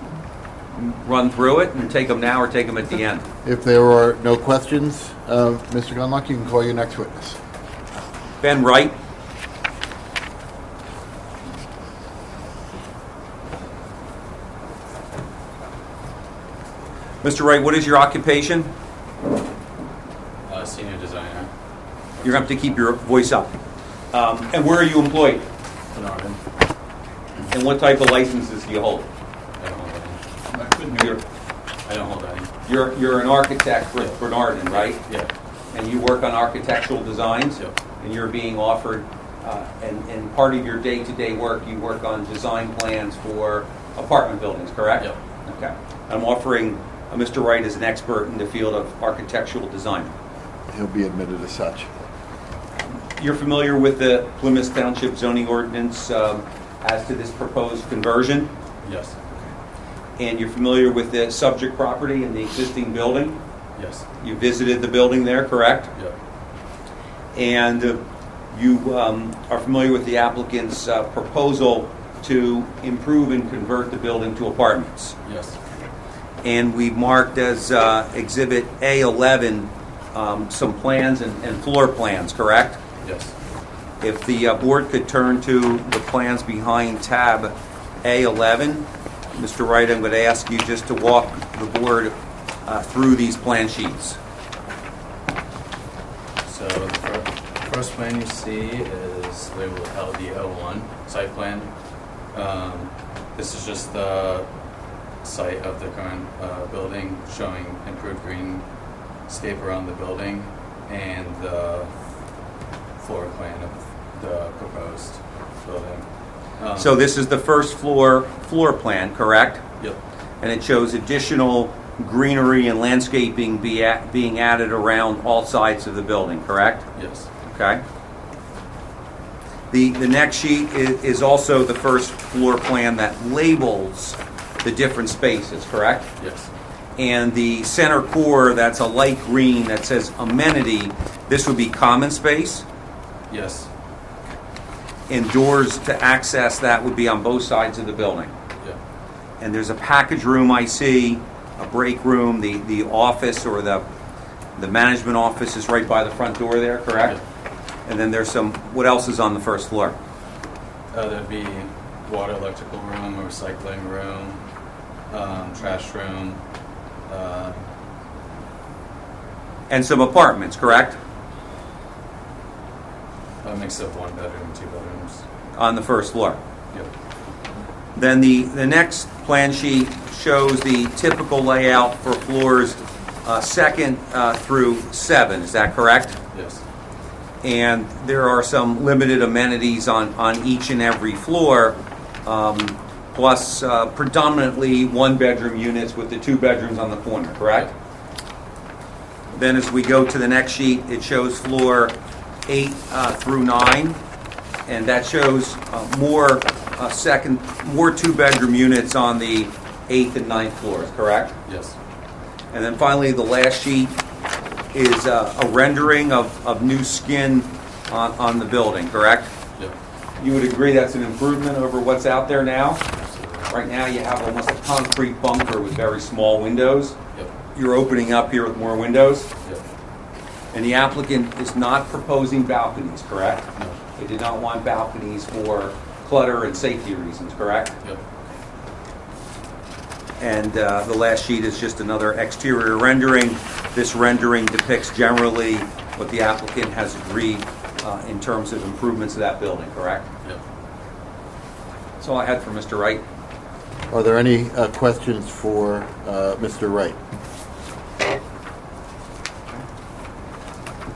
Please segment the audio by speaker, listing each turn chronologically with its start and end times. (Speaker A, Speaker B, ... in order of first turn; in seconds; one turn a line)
Speaker A: 0.7-3.2
Speaker B: 3.4-7.4
Speaker A: 8.4-8.9
Speaker A: 17.2-18.7
Speaker C: 20.5-21.5
Speaker A: 22.2-23.5
Speaker A: 24.1-25.4
Speaker C: 25.9-26.4
Speaker A: 27.5-29.1
Speaker C: 29.6-30.2
Speaker A: 30.7-31.2
Speaker C: 31.9-32.5
Speaker A: 32.6-35.0
Speaker C: 34.8-35.3
Speaker A: 35.7-50.1
Speaker B: 50.7-51.9
Speaker A: 52.9-58.5
Speaker C: 58.8-59.1
Speaker A: 60.2-63.4
Speaker C: 63.8-64.0
Speaker A: 64.2-65.9
Speaker A: 67.3-75.2
Speaker C: 75.2-75.5
Speaker A: 76.4-82.8
Speaker C: 83.0-83.3
Speaker A: 84.0-92.1
Speaker A: 92.7-94.2
Speaker C: 96.5-101.7
Speaker C: 102.3-104.5
Speaker C: 105.2-108.6
Speaker C: 109.3-111.9
Speaker C: 113.0-116.0
Speaker C: 116.6-116.9
Speaker A: 116.8-119.6
Speaker A: 120.4-126.8
Speaker C: 126.9-127.3
Speaker A: 127.4-127.8
Speaker A: 129.7-136.1
Speaker C: 136.2-136.5
Speaker A: 137.0-142.6
Speaker C: 143.3-143.7
Speaker A: 145.1-148.3
Speaker A: 149.4-153.8
Speaker A: 154.6-157.2
Speaker A: 157.8-159.9
Speaker C: 160.9-164.4
Speaker C: 165.1-166.4
Speaker C: 167.1-167.6
Speaker A: 169.7-171.0
Speaker C: 173.4-175.2
Speaker A: 175.6-176.4
Speaker A: 177.9-186.2
Speaker C: 186.3-186.6
Speaker A: 187.4-197.7
Speaker A: 199.3-201.9
Speaker A: 202.4-204.0
Speaker A: 204.7-211.3
Speaker C: 211.4-211.7
Speaker A: 212.5-214.0
Speaker A: 214.7-219.3
Speaker A: 220.2-222.8
Speaker C: 222.9-223.5
Speaker A: 223.5-227.0
Speaker A: 227.5-229.3
Speaker A: 230.5-237.7
Speaker A: 240.2-250.1
Speaker A: 252.0-253.0
Speaker B: 253.9-257.0